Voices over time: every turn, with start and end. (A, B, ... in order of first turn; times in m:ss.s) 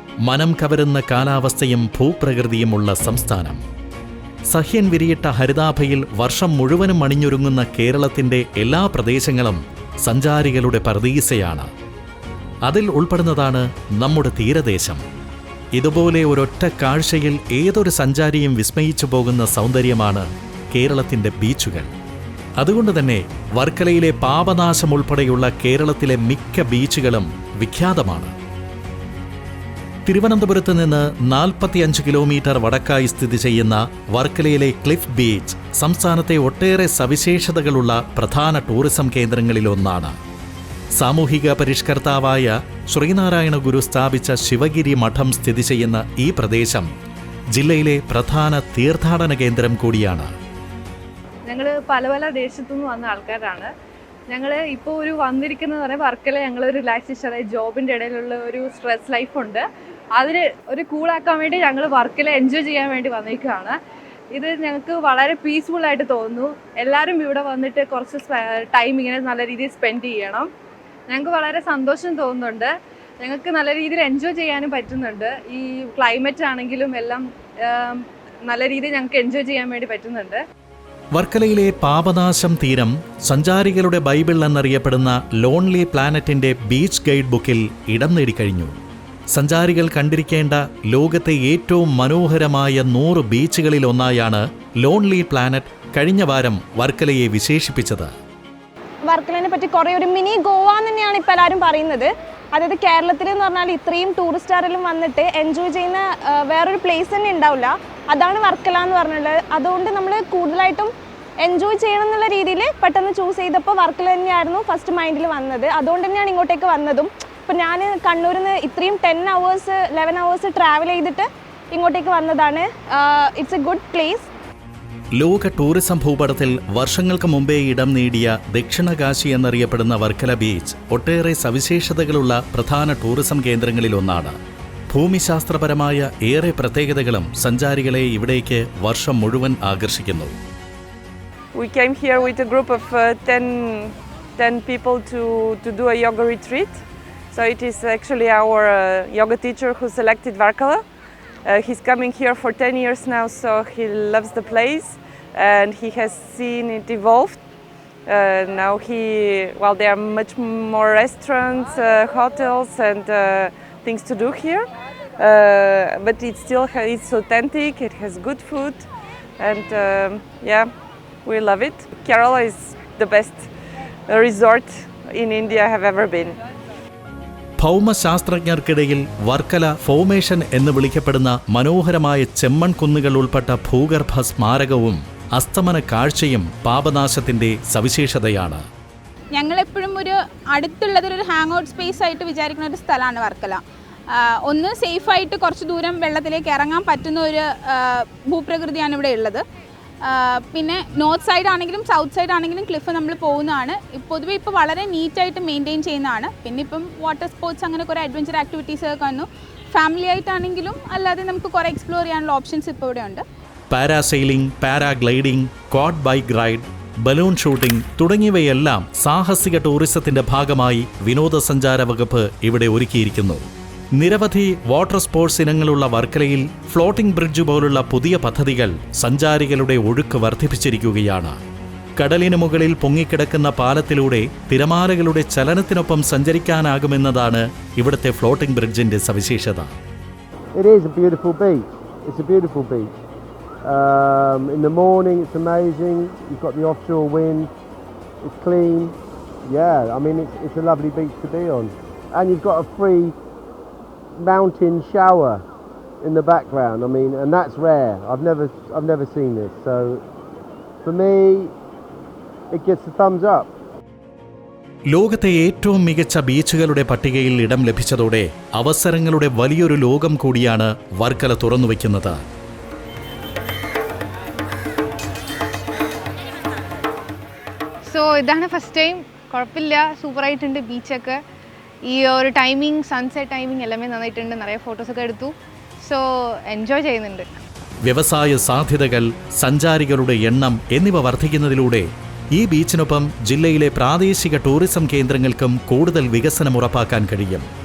0:00.2-0:03.6 A
0:04.5-0:11.7 A
0:12.6-0:15.0 A
0:15.7-0:21.9 A
0:22.6-0:28.3 A
0:30.0-0:40.2 A
0:40.9-0:46.9 A
0:47.5-0:50.3 A
0:51.4-0:53.7 B
0:54.3-1:03.8 B
1:04.3-1:10.5 B
1:11.1-1:20.4 B
1:21.1-1:28.8 A
1:29.3-1:38.1 A
1:39.0-2:04.3 C
2:05.1-2:14.4 A
2:14.9-2:20.4 A
2:21.5-2:30.8 D
2:31.4-2:37.4 D
2:38.0-2:48.8 D
2:49.4-2:50.7 D
2:51.2-2:53.5 D
2:54.1-2:56.4 D
2:57.6-3:08.6 A
3:09.3-3:19.4 E
3:20.0-3:33.2 E
3:33.7-3:51.4 A
3:52.0-3:59.7 A
4:00.5-4:02.9 F
4:03.6-4:07.5 F
4:08.2-4:13.2 F
4:14.2-4:15.4 F
4:16.0-4:20.0 F
4:20.8-4:21.5 F
4:22.5-4:23.5 F
4:24.9-4:32.2 A
4:37.9-4:41.2 G
4:41.9-4:47.2 G
4:47.8-4:57.5 A